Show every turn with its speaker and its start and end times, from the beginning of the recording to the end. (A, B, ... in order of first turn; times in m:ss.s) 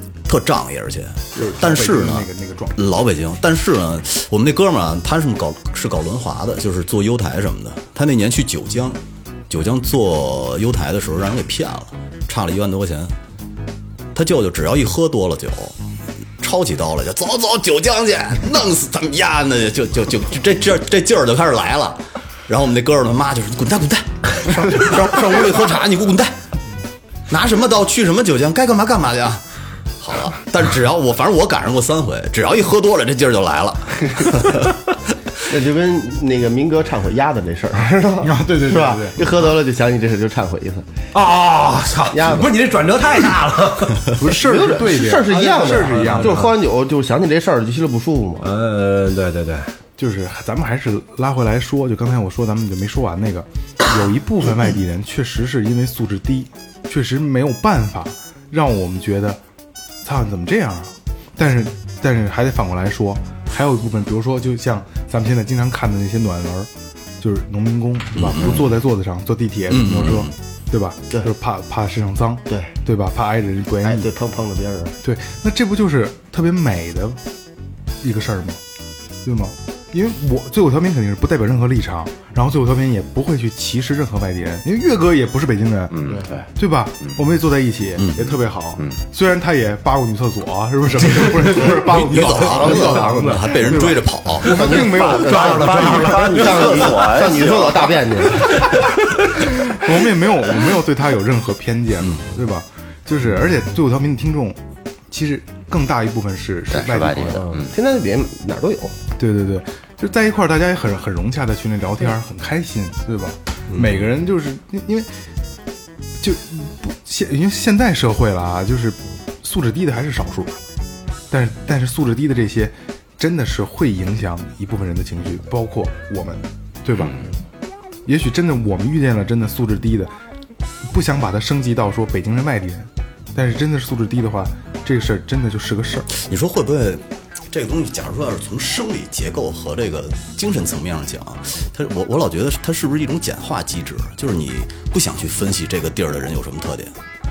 0:00.3-0:09.0 A
0:01.3-0:03.0 B
0:09.5-0:13.2 A
0:14.1-0:15.8 A
0:16.4-0:26.4 A
0:27.3-0:29.4 A
0:30.0-0:34.7 A
0:35.5-0:40.9 C
0:38.2-0:39.4 B
0:41.1-0:44.2 D
0:42.1-0:42.5 C
0:44.2-0:46.5 B
0:44.3-0:48.5 C
0:46.0-0:46.5 D
0:48.4-0:49.7 D
0:50.0-0:59.4 B
1:00.0-1:14.1 B
1:08.2-1:08.6 A
1:09.7-1:10.4 A
1:13.8-1:15.0 C
1:15.0-1:17.2 B
1:18.0-1:18.6 B
1:19.2-1:26.0 B
1:25.9-1:26.5 E
1:26.6-1:36.0 B
1:28.0-1:28.4 A
1:31.0-1:31.7 D
1:31.6-1:34.7 A
1:32.6-1:33.4 C
1:32.6-1:33.5 D
1:34.4-1:38.7 C
1:34.4-1:37.0 D
1:35.2-1:38.2 E
1:38.6-1:39.3 D
1:39.4-1:47.5 B
1:42.0-1:42.3 A
1:46.7-1:47.8 E
1:47.3-1:49.0 C
1:49.2-1:55.1 B
1:56.2-2:00.6 B
2:01.3-2:07.2 B
2:07.0-2:07.2 E
2:08.1-2:10.1 B
2:10.8-2:16.1 B
2:16.1-2:26.9 A